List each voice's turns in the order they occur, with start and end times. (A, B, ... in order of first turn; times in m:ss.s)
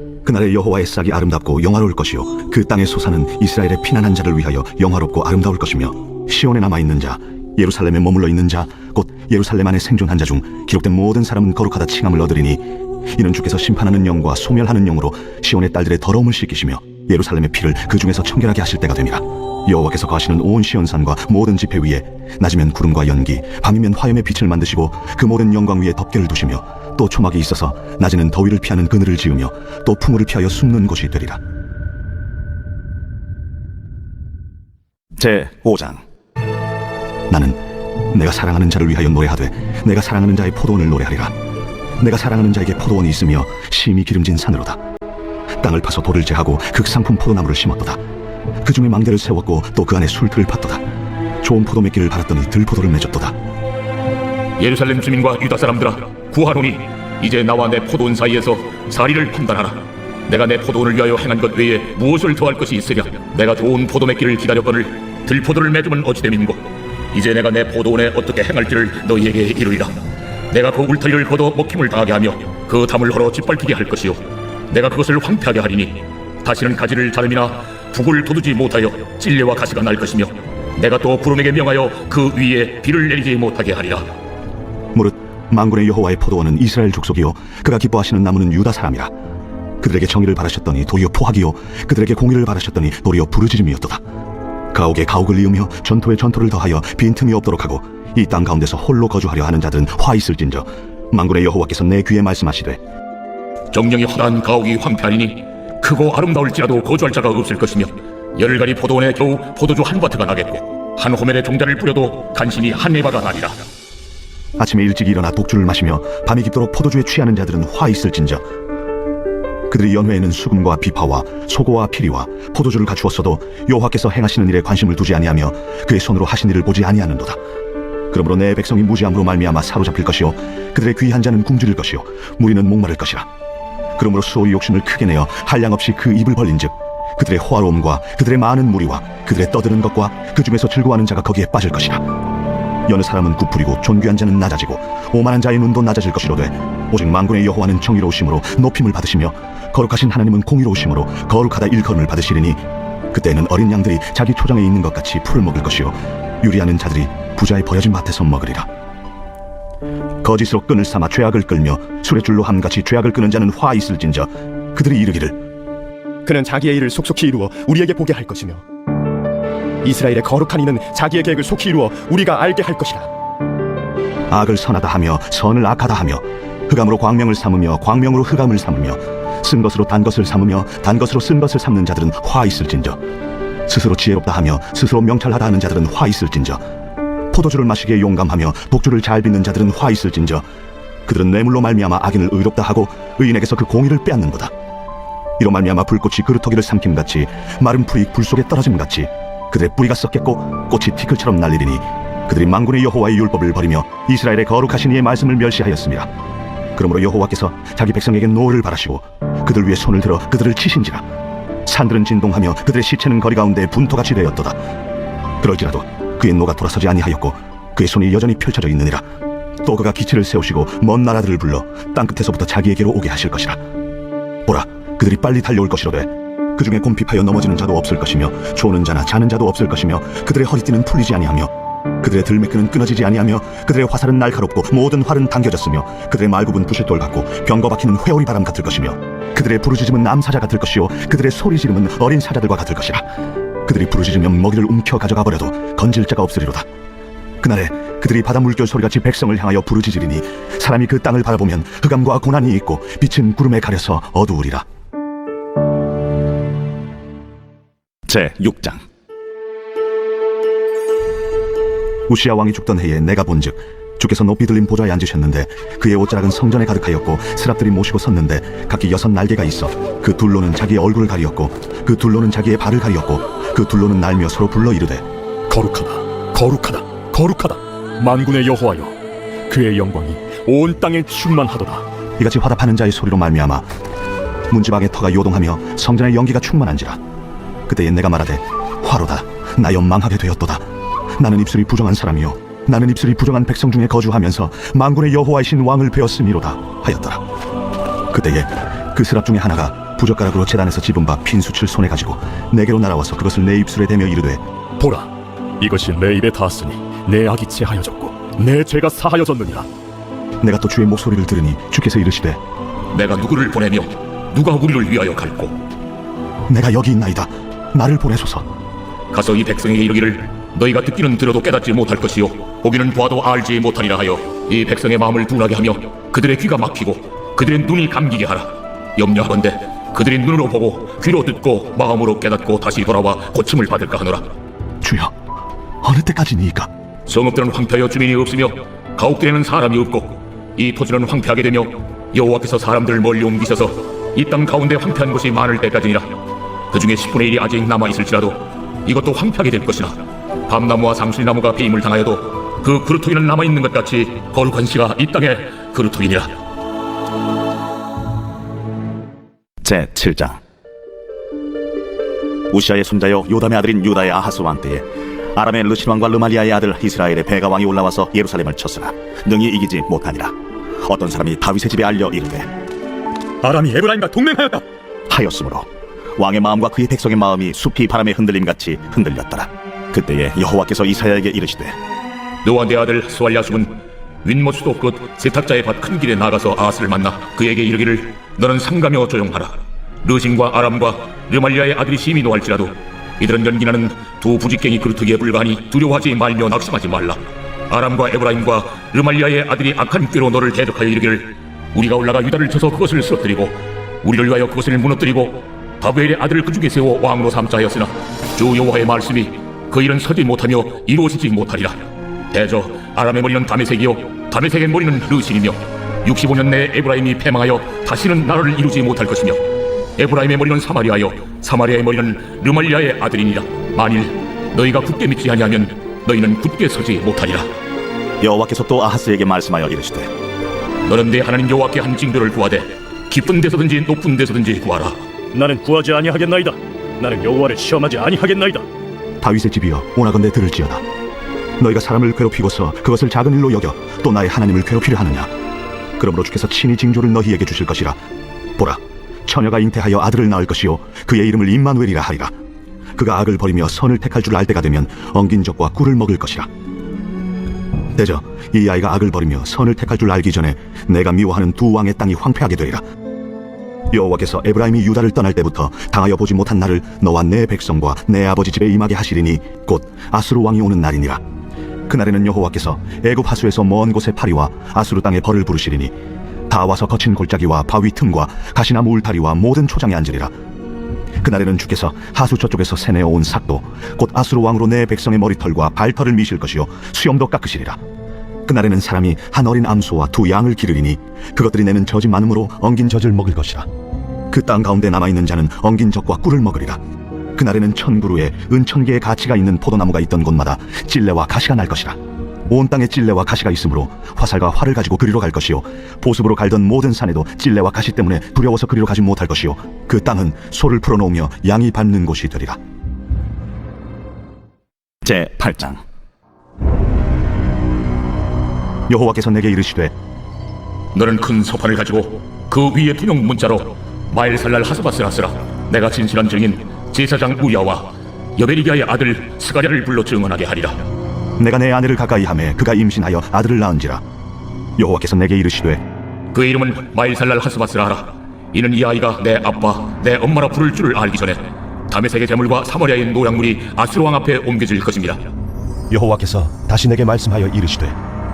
0:00.2-0:31.4 A
0:35.2-0:36.0 B
0:37.3-0:41.3 A
0:42.0-0:44.8 A
0:45.6-0:48.0 A
0:48.6-0:50.8 A
0:51.4-0:53.4 A
0:54.6-1:10.0 C
1:10.5-1:24.1 C
1:24.9-1:29.1 A
1:29.8-1:34.0 A
1:34.7-1:42.8 A
1:43.7-1:53.6 C
1:54.6-1:58.4 A
1:59.7-2:07.4 A
2:08.1-2:13.3 A
2:14.0-2:22.1 A
2:22.9-2:38.7 A
2:40.2-2:45.4 A
2:46.3-2:48.6 D
2:49.8-2:53.0 D
2:54.3-3:03.0 A
3:03.7-3:06.6 A
3:07.3-3:10.4 A
3:11.1-3:14.5 A
3:15.4-3:26.1 A
3:26.8-3:31.0 A
3:31.6-3:34.6 A
3:35.4-3:39.0 A
3:39.6-3:43.6 A
3:44.4-4:03.0 A
4:03.6-4:06.6 A
4:07.4-4:14.6 A
4:18.1-4:18.8 B
4:22.1-4:35.0 A
4:35.5-4:38.9 E
4:39.5-4:41.8 E
4:42.2-4:43.6 A
4:44.5-4:47.0 A
4:47.7-4:50.6 A
4:51.2-4:57.2 A
4:58.1-5:04.4 A
5:04.8-5:09.7 E
5:10.4-5:12.4 A
5:12.9-5:15.6 C
5:16.5-5:18.5 A
5:19.1-5:34.3 C
5:34.8-5:35.1 A
5:35.8-5:36.7 A
5:37.1-5:46.2 C
5:46.7-5:56.4 C
5:59.6-6:00.4 B
6:02.5-6:12.5 B
6:13.4-6:14.6 E
6:15.1-6:21.8 B
6:22.4-6:59.4 C
7:00.0-7:07.5 C
7:08.2-7:10.1 B
7:10.8-7:15.0 C
7:15.3-7:18.6 E
7:19.2-7:20.8 A
7:21.6-7:25.3 A
7:26.0-7:28.0 A
7:28.6-7:32.3 A
7:33.0-7:36.5 A
7:37.9-7:42.8 A
7:43.9-7:51.2 A
7:51.9-7:55.9 A
7:56.5-8:00.3 A
8:01.2-8:07.8 A
8:08.4-8:13.7 A
8:14.3-8:16.8 A
8:17.4-8:22.0 A
8:22.5-8:32.6 A
8:35.0-8:35.8 B
8:38.9-8:39.9 A
8:40.9-8:50.9 C
8:51.4-8:54.0 A
8:54.8-8:55.8 A
8:56.3-9:05.3 C
9:05.9-9:08.0 A